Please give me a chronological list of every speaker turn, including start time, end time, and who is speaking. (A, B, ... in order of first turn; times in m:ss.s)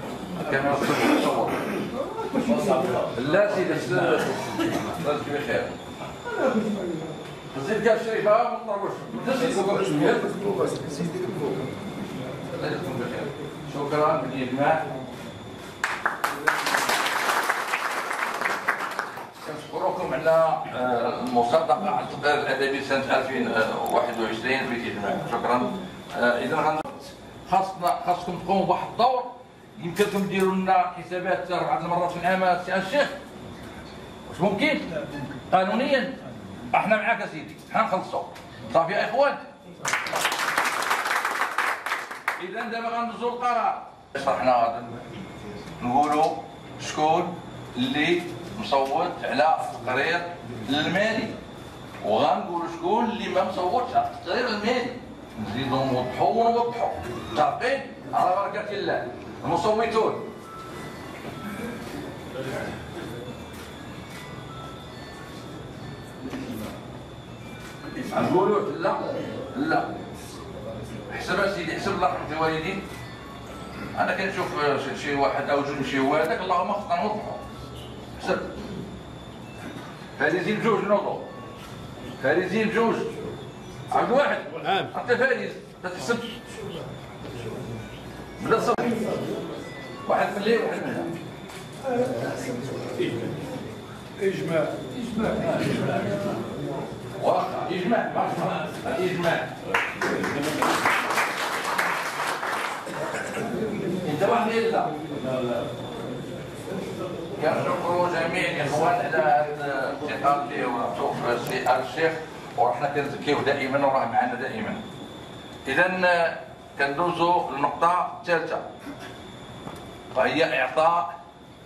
0:00.4-0:01.8 A
0:02.4-0:02.8 B
0:02.9-0:05.7 A
0:07.5-0:10.6 A
0:10.8-0:11.4 B
0:12.4-0:14.9 A
0:19.4-0:33.1 A
0:34.3-0:36.2 A
0:36.7-0:39.4 A
0:42.4-0:44.9 A
0:45.8-0:51.4 A
0:52.0-1:00.3 A
1:08.0-1:09.9 A
1:11.1-1:12.8 A
1:13.9-1:17.4 A
1:18.1-1:18.5 A
1:20.2-1:21.2 A
1:22.2-1:23.1 A
1:23.9-1:26.4 A
1:28.4-1:29.0 A
1:30.0-1:31.1 A
1:34.2-1:35.3 B
1:35.3-1:35.9 A
1:37.2-1:39.6 A
1:44.0-1:45.0 A
1:47.3-1:54.8 A
1:55.7-1:58.6 A
2:00.1-2:01.1 A